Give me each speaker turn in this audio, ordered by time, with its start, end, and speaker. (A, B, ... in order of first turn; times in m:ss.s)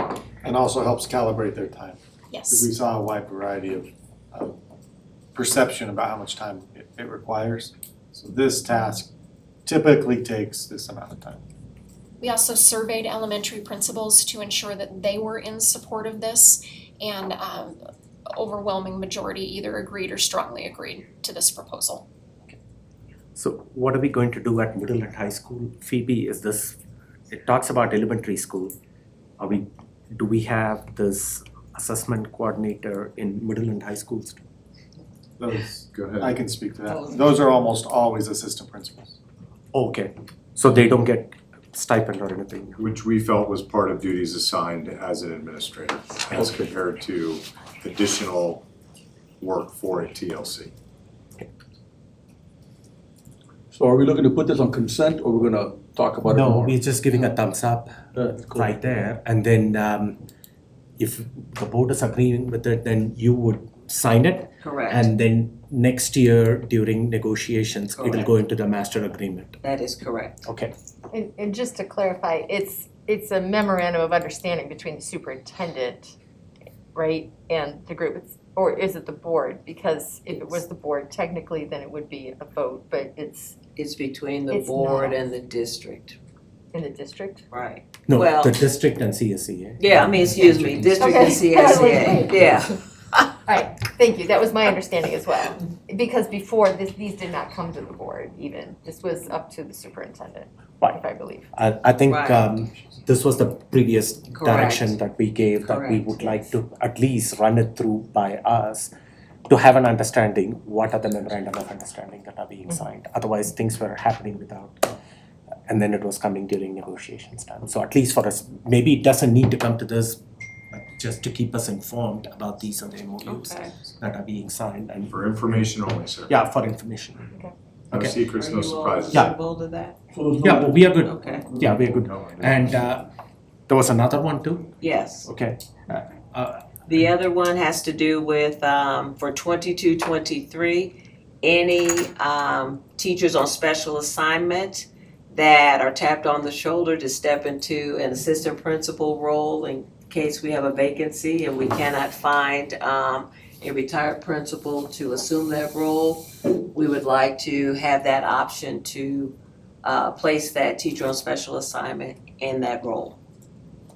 0:00.4-0:02.0 A
0:02.3-0:02.7 B
0:02.5-0:04.5 A
0:05.3-0:09.1 A
0:09.6-0:11.4 A
0:12.2-0:17.8 B
0:18.3-0:22.0 B
0:23.4-0:26.8 C
0:27.3-0:28.7 C
0:29.4-0:34.4 C
0:35.4-0:39.1 A
0:35.8-0:36.4 D
0:36.9-0:37.5 E
0:39.7-0:42.8 C
0:42.8-0:48.6 D
0:49.4-0:50.7 D
0:53.7-0:56.8 F
0:56.2-1:00.2 C
0:58.1-0:58.7 F
1:01.0-1:09.6 C
1:04.6-1:05.1 E
1:07.9-1:08.3 E
1:09.6-1:10.5 E
1:10.4-1:10.7 C
1:11.1-1:16.1 G
1:16.9-1:23.6 G
1:20.3-1:20.6 E
1:23.8-1:26.2 E
1:24.5-1:25.2 G
1:26.7-1:27.4 G
1:27.5-1:28.5 E
1:28.1-1:31.1 C
1:29.8-1:33.3 E
1:31.0-1:32.5 G
1:33.5-1:41.5 G
1:41.5-1:48.9 C
1:42.1-1:42.4 E
1:44.4-1:44.9 E
1:45.7-1:46.4 E
1:49.5-1:54.9 C
1:55.7-2:05.2 C
2:03.2-2:03.7 E
2:05.1-2:06.3 D
2:06.3-2:07.3 C
2:07.9-2:09.2 D
2:07.9-2:08.2 C
2:08.3-2:10.0 E
2:10.1-2:10.8 F
2:10.4-2:13.1 C
2:11.0-2:11.4 E
2:11.5-2:11.7 F
2:11.9-2:12.9 D
2:13.7-2:16.6 C
2:14.8-2:15.3 E
2:16.9-2:43.2 E